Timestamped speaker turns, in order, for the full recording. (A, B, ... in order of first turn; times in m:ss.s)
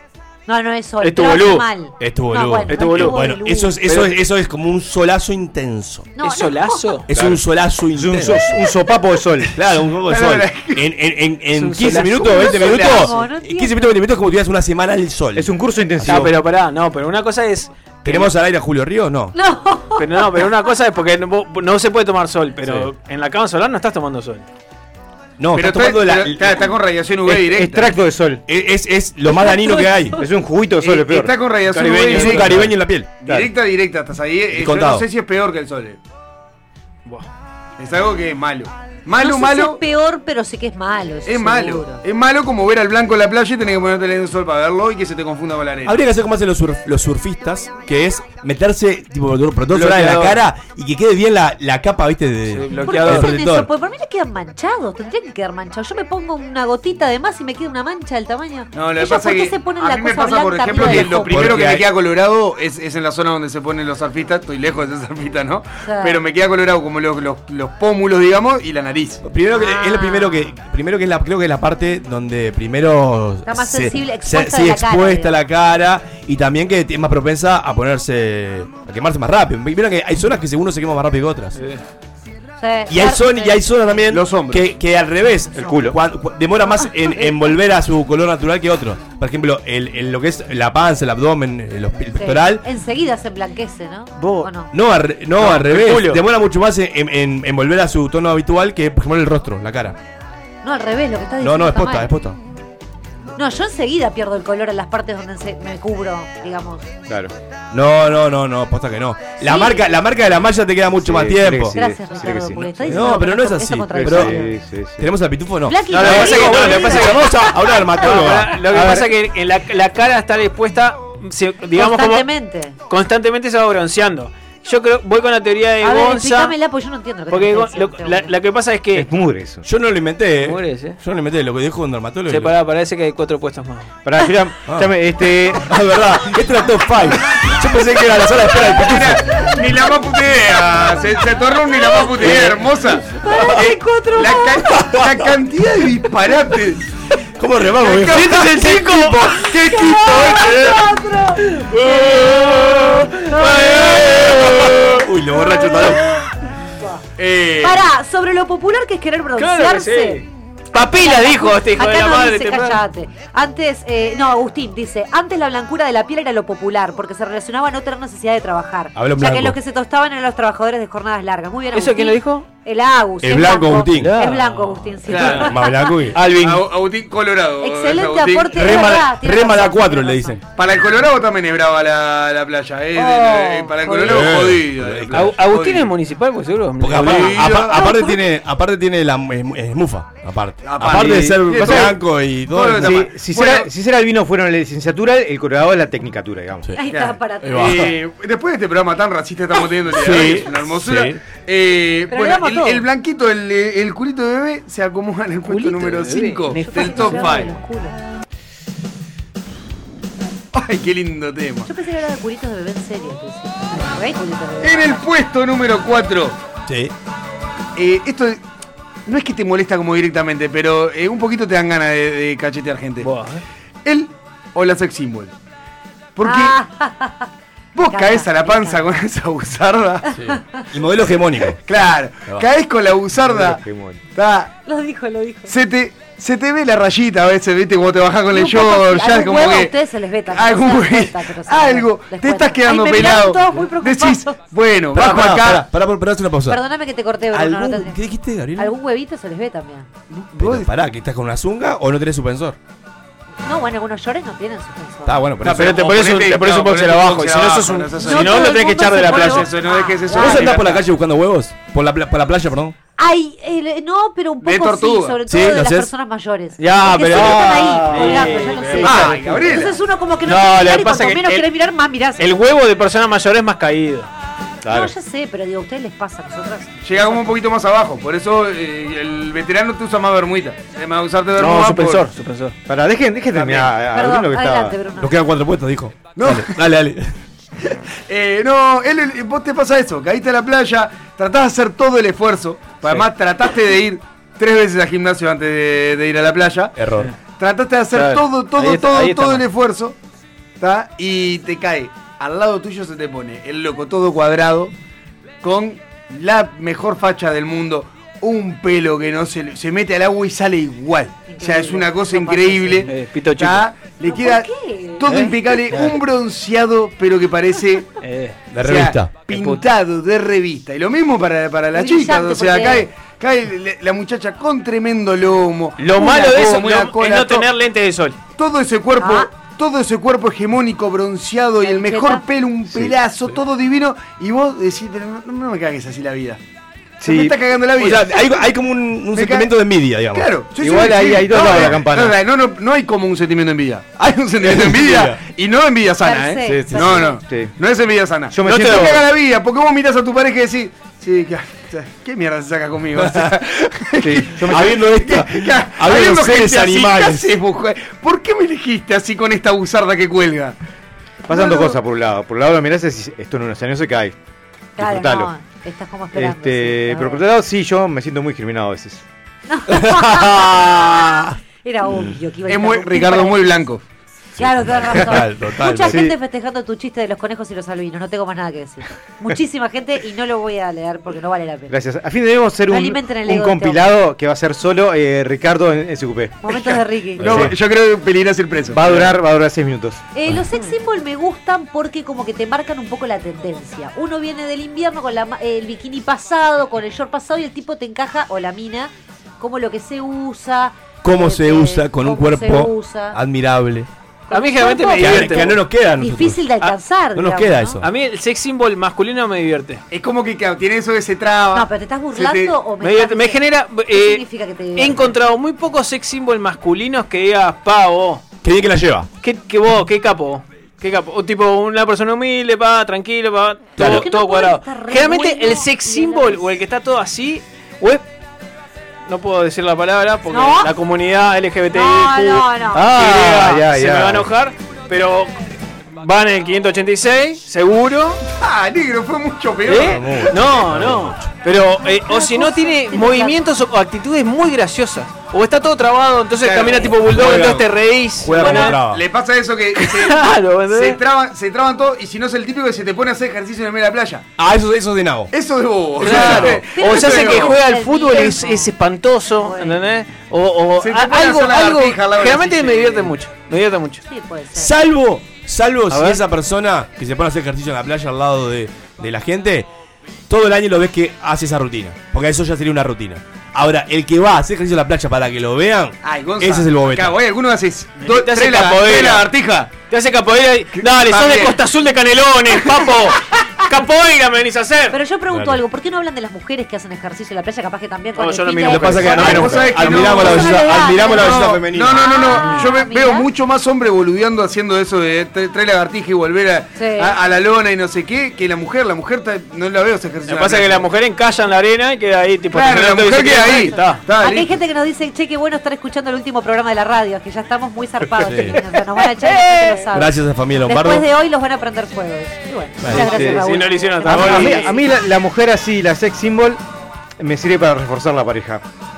0:00.5-0:03.8 A
0:01.0-0:01.7 B
0:02.0-0:06.1 C
0:02.7-0:03.2 B
0:03.8-0:04.1 B
0:06.2-0:07.0 A
0:06.2-0:07.1 B
0:07.1-0:08.6 C
0:07.1-0:07.4 D
0:07.9-0:09.5 D
0:09.5-0:16.3 C
0:10.0-0:10.9 E
0:11.5-0:12.5 B
0:12.2-0:13.1 E
0:12.3-0:13.8 A
0:15.4-0:16.3 D
0:16.0-0:18.3 B
0:18.0-0:19.3 C
0:19.3-0:20.4 A
0:20.0-0:24.5 B
0:25.4-0:26.7 C
0:25.5-0:27.9 E
0:27.3-0:28.4 D
0:28.5-0:30.2 C
0:30.2-0:31.4 D
0:30.8-0:36.0 E
0:31.7-0:32.6 B
0:32.1-0:33.1 C
0:33.2-0:33.5 D
0:34.5-0:35.0 C
0:37.8-0:39.8 E
0:39.2-0:42.0 A
0:41.2-0:46.0 E
0:45.8-0:53.7 C
0:49.7-0:50.4 B
0:52.5-0:53.3 B
0:52.8-1:01.5 A
0:58.7-1:09.2 E
1:00.8-1:01.9 C
1:05.8-1:06.2 A
1:09.2-1:21.6 C
1:09.5-1:10.6 A
1:13.4-1:15.3 A
1:21.6-1:21.8 B
1:22.6-1:23.8 A
1:22.9-1:32.6 C
1:24.1-1:24.6 E
1:25.5-1:26.0 D
1:32.2-1:34.7 A
1:34.2-1:34.5 D
1:34.7-1:40.0 C
1:35.4-1:36.2 B
1:40.6-1:42.1 A
1:41.4-1:42.4 C
1:43.4-1:46.9 A
1:47.1-1:47.3 D
1:47.7-1:51.8 C
1:49.4-1:49.8 A
1:50.9-1:53.2 D
1:51.7-1:54.5 A
1:52.9-1:54.3 C
1:53.9-1:55.1 D
1:55.0-1:58.7 C
1:55.7-1:57.9 A
1:55.9-2:02.3 B
1:58.7-1:59.1 D
2:01.7-2:02.8 A
2:02.9-2:06.5 B
2:05.8-2:08.3 A
2:07.3-2:09.1 B
2:08.9-2:09.6 D
2:09.6-2:12.5 C
2:10.4-2:11.0 B
2:12.3-2:13.9 B
2:14.0-2:15.7 D
2:14.7-2:14.9 C
2:15.5-2:19.5 C
2:18.6-2:23.2 E
2:21.7-2:22.1 A
2:22.2-2:22.6 C
2:23.1-2:24.8 A
2:23.3-2:23.6 C
2:24.1-2:26.8 E
2:24.7-2:25.2 C
2:27.4-2:29.0 C
2:27.8-2:30.7 E
2:28.1-2:30.6 B
2:29.7-2:34.1 A
2:31.4-2:35.0 B
2:33.9-2:36.0 C
2:35.4-2:35.9 A
2:37.2-2:37.8 E
2:37.6-2:40.2 A
2:39.4-2:42.8 B
2:40.8-2:56.0 A
2:49.0-2:49.6 C
2:51.7-2:52.4 B
2:53.2-2:54.2 C
2:53.9-2:55.4 B
2:55.1-2:55.5 E
2:55.2-2:56.6 C
2:56.1-2:56.5 B
2:56.3-2:58.7 E
2:57.6-3:00.4 A
2:58.5-3:00.4 C
3:00.6-3:05.9 E
3:03.0-3:04.3 A
3:04.0-3:05.4 C
3:05.1-3:07.4 B
3:06.8-3:13.1 C
3:06.9-3:07.9 E
3:07.5-3:08.2 A
3:10.6-3:13.7 E
3:11.0-3:11.9 D
3:12.8-3:16.7 D
3:16.8-3:17.9 A
3:16.8-3:27.5 E
3:17.4-3:17.9 C
3:19.9-3:21.2 C
3:22.1-3:22.8 A
3:25.4-3:27.4 B
3:26.5-3:28.0 A
3:30.5-3:31.7 E
3:31.6-3:35.0 A
3:34.6-3:36.4 E
3:36.7-3:36.9 C
3:37.8-3:38.4 E
3:39.0-3:43.1 E
3:43.0-3:43.4 B
3:43.8-3:45.3 E
3:46.2-3:46.6 E
3:46.2-3:47.3 A
3:47.7-3:50.1 E
3:47.9-3:49.0 A
3:50.1-3:51.6 C
3:51.6-3:53.6 E
3:53.2-3:54.0 D
3:54.1-3:54.5 E
3:54.6-3:55.5 A
3:55.5-3:59.8 E
3:58.3-4:04.3 A
4:00.3-4:05.7 E
4:04.9-4:06.6 C
4:06.5-4:08.0 A
4:07.3-4:08.7 C
4:08.6-4:09.9 A
4:10.1-4:10.7 E
4:10.4-4:12.6 C
4:13.4-4:15.2 A
4:15.0-4:16.0 C
4:15.4-4:20.8 E
4:15.4-4:19.5 B
4:18.0-4:20.6 A
4:20.1-4:22.7 C
4:23.0-4:32.3 A
4:24.4-4:25.2 E
4:25.3-4:25.9 C
4:26.7-4:28.0 C
4:26.8-4:29.3 B
4:28.8-4:29.7 E
4:30.2-4:31.4 B
4:32.2-4:34.1 B
4:34.6-4:34.9 D
4:34.7-4:37.3 A
4:36.8-4:42.1 E
4:41.4-4:42.6 B
4:42.7-4:44.8 D
4:43.3-4:43.6 E
4:43.9-4:45.1 A
4:45.0-4:47.1 C
4:46.2-4:46.6 E
4:47.6-4:56.7 E
4:56.8-4:57.1 C
4:57.3-5:00.0 E
4:57.9-4:59.4 B
5:00.6-5:04.7 E
5:05.4-5:18.0 E
5:11.3-5:12.9 A
5:12.8-5:13.6 B
5:14.0-5:15.4 A
5:15.7-5:16.0 B
5:18.0-5:18.4 B
5:18.5-5:19.2 C
5:18.5-5:27.5 E
5:19.3-5:19.6 B
5:21.7-5:22.9 A
5:25.8-5:28.2 B
5:28.4-5:36.4 E
5:29.0-5:29.3 A
5:31.6-5:32.2 A
5:37.0-5:37.4 D
5:37.0-5:38.3 E
5:37.8-5:40.3 C
5:39.1-5:39.5 E
5:40.1-6:00.6 E
5:40.6-5:42.2 D
5:41.3-5:41.8 C
5:44.4-5:45.2 C
5:46.0-5:47.2 A
5:46.4-5:47.5 D
5:46.6-5:46.9 C
5:48.3-5:49.1 D
5:48.4-5:48.9 B
5:53.0-5:53.4 C
5:54.0-5:54.8 D
5:54.4-5:57.3 C
6:01.3-6:04.1 D
6:01.3-6:01.8 E
6:04.8-6:05.3 D
6:04.8-6:07.2 A
6:06.1-6:09.0 D
6:09.5-6:13.7 A
6:09.8-6:11.2 C
6:12.5-6:13.8 E
6:14.4-6:16.0 C
6:14.4-6:21.7 A
6:15.8-6:16.2 D
6:21.7-6:26.6 D
6:22.7-6:23.9 A
6:26.4-6:27.5 A
6:27.2-6:27.5 D
6:27.2-6:29.2 E
6:28.7-6:30.0 D
6:30.1-6:43.2 A
6:41.0-6:43.9 C
6:44.3-6:47.8 A
6:44.3-6:45.6 B
6:45.0-6:46.4 C
6:47.1-6:47.9 C
6:47.8-6:49.8 B
6:49.9-6:52.6 E
6:51.5-6:55.2 A
6:52.8-6:54.2 B
6:54.8-6:58.2 B
6:58.4-6:59.1 C
6:59.2-7:08.0 B
7:03.8-7:04.0 C
7:03.8-7:06.6 A
7:09.0-7:15.3 B
7:10.3-7:10.7 A
7:11.7-7:12.9 A
7:12.7-7:14.3 D
7:16.0-7:18.2 B
7:18.4-7:20.4 E
7:19.6-7:28.8 B
7:19.7-7:21.3 C
7:21.8-7:23.4 A
7:26.4-7:26.9 E
7:26.8-7:27.6 C
7:28.2-7:29.0 C
7:28.3-7:34.2 E
7:29.8-7:31.0 B
7:34.4-7:35.3 C
7:35.3-7:37.6 E
7:36.0-7:44.0 B
7:36.0-7:36.6 C
7:36.7-7:38.7 A
7:39.4-7:39.8 A
7:40.8-7:43.1 E
7:44.0-7:44.7 A
7:44.5-7:49.7 C
7:45.9-7:46.2 B
7:50.3-7:57.2 C
7:56.0-7:59.7 E
7:58.0-7:59.3 B
7:59.8-8:05.0 B
8:00.7-8:01.6 E
8:04.9-8:13.2 A
8:05.3-8:05.6 C
8:08.2-8:09.8 B
8:08.7-8:12.1 C
8:09.1-8:20.9 E
8:16.8-8:17.2 A
8:20.2-8:24.0 B
8:22.5-8:24.6 E
8:23.5-8:34.8 A
8:28.2-8:28.6 C
8:29.3-8:29.8 B
8:29.9-8:31.0 C
8:32.8-8:33.1 C
8:32.9-8:33.4 D
8:33.1-8:34.8 B
8:34.0-8:36.6 D
8:37.2-8:38.6 D